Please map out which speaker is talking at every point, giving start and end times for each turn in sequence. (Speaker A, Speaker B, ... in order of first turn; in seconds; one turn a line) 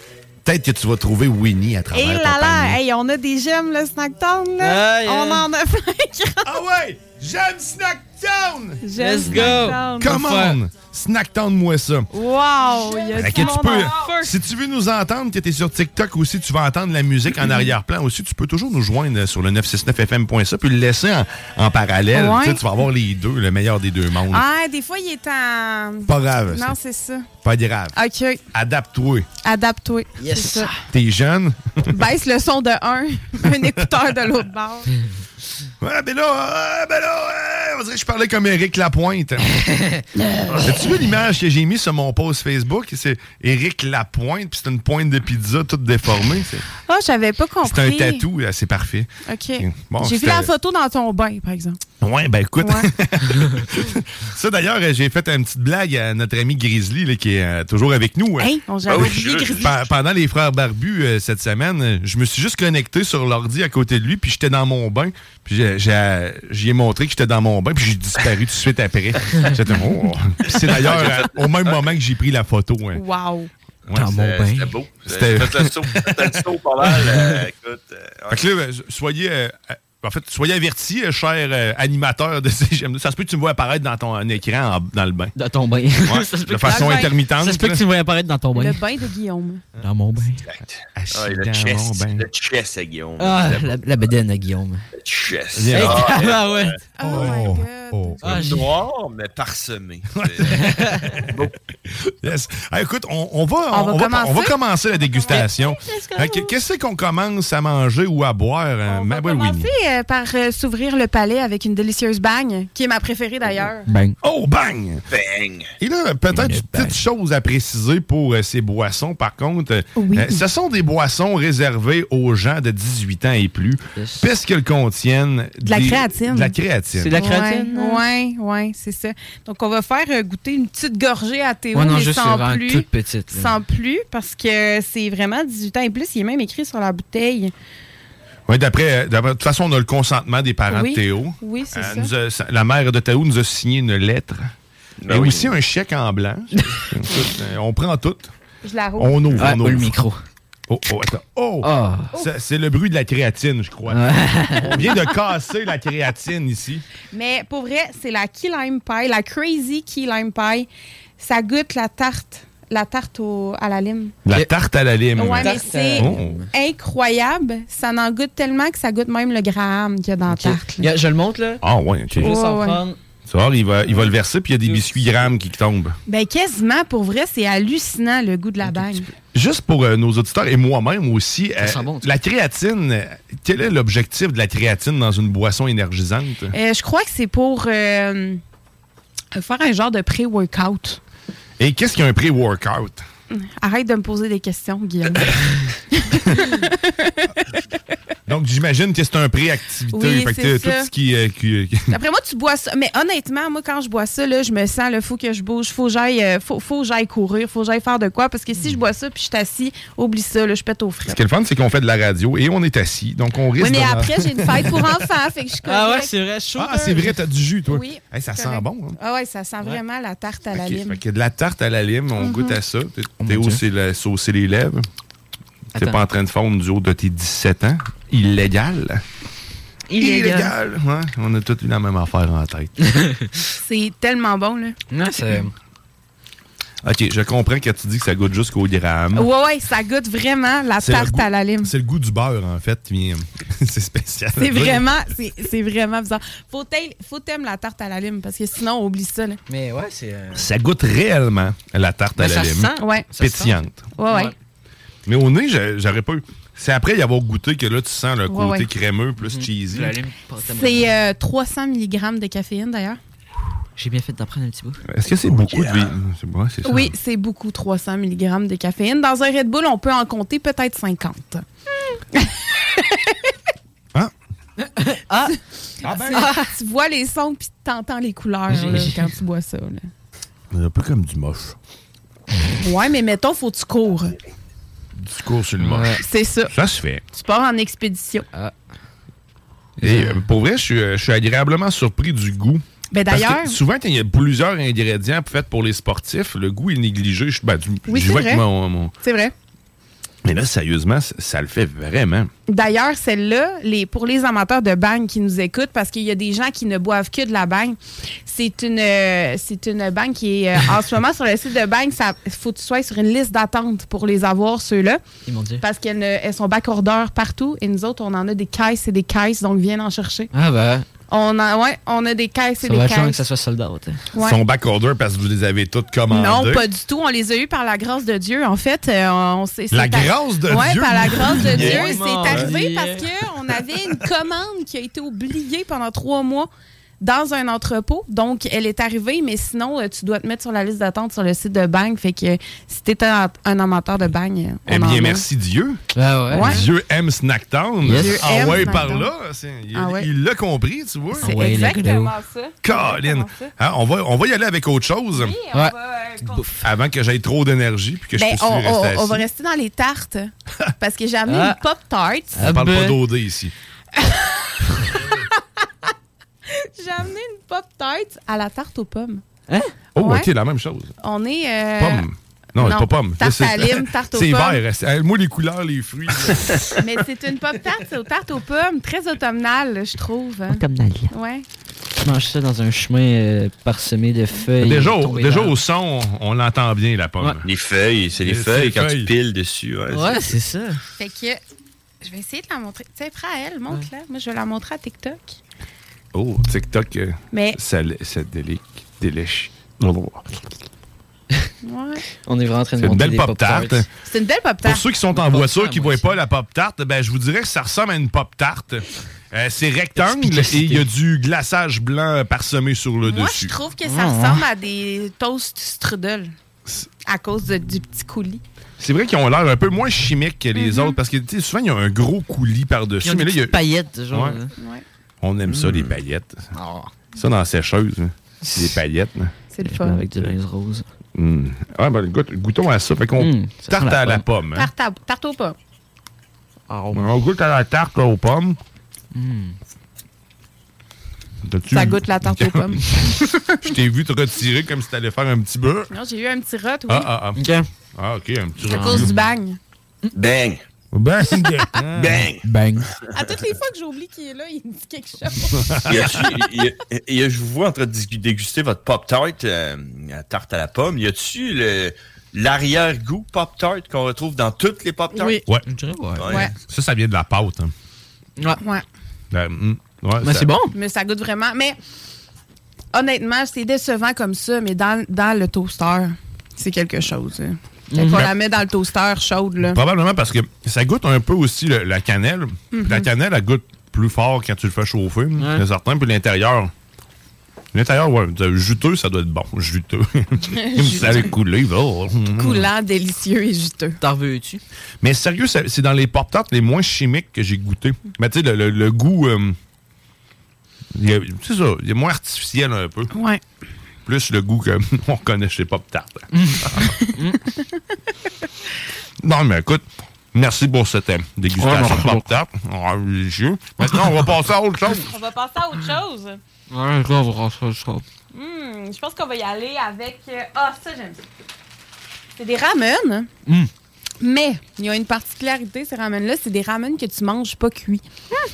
Speaker A: 0.4-2.8
Speaker B: 1.9-6.6
Speaker C: 4.6-5.5
Speaker A: 6.4-8.8
Speaker B: 8.8-10.2
Speaker C: 9.0-10.6
Speaker A: 10.0-12.1
Speaker B: 12.1-14.3
Speaker C: 13.1-13.8
Speaker A: 13.2-24.4
Speaker B: 17.4-17.6
Speaker B: 22.1-22.6
Speaker B: 24.3-27.3
Speaker A: 26.1-26.7
Speaker A: 27.4-27.9
Speaker B: 27.9-28.4
Speaker A: 28.5-29.3
Speaker B: 29.4-30.7
Speaker C: 30.2-30.7
Speaker A: 30.9-31.9
Speaker B: 31.9-34.9
Speaker A: 35.8-39.5
Speaker C: 39.5-40.0
Speaker B: 40.2-40.8
Speaker A: 40.6-46.6
Speaker B: 46.8-48.2
Speaker A: 47.6-50.5
Speaker B: 49.3-51.8
Speaker A: 52.0-73.0
Speaker B: 52.6-52.9
Speaker B: 58.4-59.9
Speaker D: 58.9-59.7
Speaker D: 70.6-71.9
Speaker B: 72.9-73.5
Speaker A: 73.9-74.3
Speaker C: 73.9-74.8
Speaker D: 74.3-78.4
Speaker A: 75.0-76.4
Speaker C: 76.8-77.4
Speaker A: 78.3-85.3
Speaker C: 85.3-88.8
Speaker A: 86.0-87.8
Speaker B: 86.7-87.1
Speaker B: 88.5-89.7
Speaker C: 89.8-90.4
Speaker D: 90.5-93.4
Speaker A: 90.9-92.3
Speaker C: 93.2-94.8
Speaker D: 95.0-96.8
Speaker A: 95.5-96.3
Speaker C: 95.7-96.8
Speaker B: 97.0-98.2
Speaker A: 97.0-98.4
Speaker C: 98.2-98.7
Speaker D: 98.4-100.6
Speaker A: 100.1-101.3
Speaker C: 100.5-101.1
Speaker D: 101.2-101.5
Speaker A: 101.9-109.7
Speaker B: 103.7-106.5
Speaker B: 108.9-113.8
Speaker C: 113.8-114.2
Speaker A: 114.2-115.0
Speaker D: 115.1-115.7
Speaker A: 115.8-127.2
Speaker C: 116.3-117.0
Speaker B: 120.0-120.4
Speaker C: 124.0-124.3
Speaker B: 125.6-126.5
Speaker C: 127.0-128.0
Speaker B: 127.1-137.5
Speaker C: 131.7-133.6
Speaker A: 138.5-144.5
Speaker B: 140.7-142.1
Speaker D: 145.0-145.5
Speaker A: 145.1-148.3
Speaker B: 148.6-149.5
Speaker A: 149.0-149.9
Speaker C: 149.4-150.2
Speaker A: 150.7-154.0
Speaker C: 151.6-152.1
Speaker C: 153.9-154.8
Speaker A: 154.6-156.8
Speaker B: 157.1-160.7
Speaker B: 161.2-164.2
Speaker A: 164.2-166.4
Speaker B: 165.2-170.9
Speaker C: 165.4-166.5
Speaker C: 170.3-173.0
Speaker A: 171.6-172.4
Speaker B: 172.2-172.8
Speaker A: 173.3-175.9
Speaker C: 173.8-175.3
Speaker B: 176.1-179.1
Speaker A: 179.3-186.5
Speaker C: 181.6-182.1
Speaker B: 186.5-188.4
Speaker B: 189.3-191.0
Speaker A: 191.6-193.0
Speaker B: 193.3-195.4
Speaker B: 195.9-197.4
Speaker A: 198.3-201.9
Speaker B: 199.9-200.9
Speaker B: 201.9-211.2
Speaker C: 208.6-208.8
Speaker A: 211.1-214.8
Speaker B: 213.6-216.1
Speaker C: 215.6-217.2
Speaker A: 216.6-219.0
Speaker B: 217.7-221.0
Speaker A: 220.6-224.8
Speaker B: 222.2-222.6
Speaker C: 223.2-223.6
Speaker C: 225.7-226.0
Speaker A: 225.7-229.0
Speaker C: 229.9-230.5
Speaker A: 230.0-232.7
Speaker B: 230.0-230.5
Speaker C: 232.9-233.3
Speaker B: 233.6-234.8
Speaker C: 234.9-235.5
Speaker A: 236.8-239.3
Speaker B: 239.1-241.7
Speaker A: 240.8-244.8
Speaker B: 244.3-249.4
Speaker C: 249.5-250.5
Speaker A: 250.3-253.9
Speaker C: 252.2-253.6
Speaker B: 252.8-253.1
Speaker B: 254.0-254.3
Speaker C: 254.1-254.3
Speaker A: 255.1-260.0
Speaker B: 258.3-258.7
Speaker C: 259.2-260.9
Speaker B: 260.4-263.0
Speaker C: 263.8-264.8
Speaker A: 264.9-266.9
Speaker D: 265.2-265.9
Speaker B: 266.6-271.4
Speaker B: 272.1-273.3
Speaker C: 274.8-275.4
Speaker A: 275.8-276.3
Speaker B: 275.9-279.9
Speaker C: 276.1-276.4
Speaker C: 278.5-279.1
Speaker A: 280.5-281.6
Speaker B: 282.6-284.1
Speaker A: 285.0-287.0
Speaker C: 285.6-286.0
Speaker B: 286.0-286.5
Speaker B: 287.1-288.3
Speaker C: 289.8-290.2
Speaker A: 289.8-298.9
Speaker B: 292.9-293.6
Speaker B: 297.9-298.4
Speaker B: 299.0-299.3
Speaker A: 300.2-302.3
Speaker B: 302.5-315.0
Speaker C: 315.3-315.6
Speaker B: 315.6-320.3
Speaker C: 320.3-320.8
Speaker B: 321.1-323.2
Speaker C: 322.6-324.0
Speaker B: 324.1-324.4
Speaker A: 324.2-326.6
Speaker B: 326.1-336.5
Speaker A: 329.7-331.9
Speaker C: 331.3-333.1
Speaker B: 337.0-345.3
Speaker A: 344.7-345.8
Speaker C: 345.9-346.6
Speaker B: 346.3-346.6
Speaker A: 346.4-351.3
Speaker C: 347.8-348.8
Speaker B: 347.9-349.1
Speaker B: 349.7-350.1
Speaker B: 351.1-353.5
Speaker C: 351.2-352.1
Speaker A: 352.6-355.4
Speaker B: 355.1-356.6
Speaker C: 355.5-356.5
Speaker A: 356.6-359.2
Speaker B: 358.2-362.4
Speaker C: 361.3-361.6
Speaker C: 362.4-363.0
Speaker A: 362.4-363.5
Speaker B: 363.9-365.9
Speaker B: 366.5-369.2
Speaker A: 369.9-370.9
Speaker B: 370.0-370.3
Speaker B: 371.0-372.1
Speaker A: 371.8-376.7
Speaker B: 372.6-374.6
Speaker B: 376.8-381.4
Speaker C: 380.5-381.1
Speaker C: 382.0-385.6
Speaker A: 384.6-387.4
Speaker D: 387.4-390.1
Speaker A: 388.2-389.1
Speaker C: 389.9-390.8
Speaker B: 391.0-391.4
Speaker B: 392.0-395.4
Speaker A: 396.1-400.4
Speaker B: 397.3-397.6
Speaker B: 401.6-402.0
Speaker C: 402.2-403.8
Speaker A: 402.8-403.9
Speaker B: 404.0-404.8
Speaker A: 404.6-413.6
Speaker C: 405.1-406.1
Speaker C: 409.9-410.9
Speaker B: 413.1-416.3
Speaker C: 413.8-414.4
Speaker B: 417.1-418.4
Speaker A: 418.8-423.6
Speaker B: 420.6-421.0
Speaker C: 423.0-424.5
Speaker A: 424.1-424.4
Speaker B: 424.6-424.8
Speaker A: 425.2-426.4
Speaker D: 425.5-425.9
Speaker C: 426.6-426.9
Speaker A: 427.1-429.3
Speaker C: 428.4-428.8
Speaker B: 429.5-430.0
Speaker C: 429.6-430.9
Speaker A: 431.1-434.7
Speaker C: 433.2-434.2
Speaker B: 434.5-435.6
Speaker C: 436.7-437.1
Speaker A: 436.9-438.6
Speaker C: 439.1-439.6
Speaker A: 441.4-442.7
Speaker B: 441.7-443.7
Speaker A: 443.6-445.9
Speaker B: 445.9-447.1
Speaker A: 446.9-447.4
Speaker C: 447.4-447.6
Speaker A: 447.9-449.1
Speaker B: 448.6-449.6
Speaker C: 448.7-449.1
Speaker D: 450.1-450.6
Speaker A: 450.9-452.2
Speaker D: 452.0-452.4
Speaker C: 452.4-452.9
Speaker B: 453.1-455.9
Speaker A: 455.6-456.4
Speaker D: 455.9-465.3
Speaker B: 465.1-465.4
Speaker C: 465.2-466.4
Speaker D: 466.2-466.5
Speaker B: 466.3-466.5
Speaker A: 466.6-467.7
Speaker A: 469.3-470.5
Speaker C: 470.2-470.7
Speaker B: 470.7-471.8
Speaker B: 472.9-479.8
Speaker C: 477.9-478.3
Speaker A: 479.7-486.7
Speaker B: 482.7-483.1
Speaker C: 485.4-485.6
Speaker A: 487.7-492.7
Speaker B: 490.5-491.3
Speaker B: 492.4-494.0
Speaker C: 494.0-494.6
Speaker A: 495.0-499.6
Speaker A: 500.9-503.1
Speaker B: 503.1-503.4
Speaker A: 504.1-506.9
Speaker C: 506.3-507.4
Speaker A: 509.2-515.1
Speaker C: 511.6-512.3
Speaker B: 515.0-516.4
Speaker C: 516.7-518.0
Speaker B: 518.3-521.2
Speaker B: 522.4-523.3
Speaker B: 524.2-528.0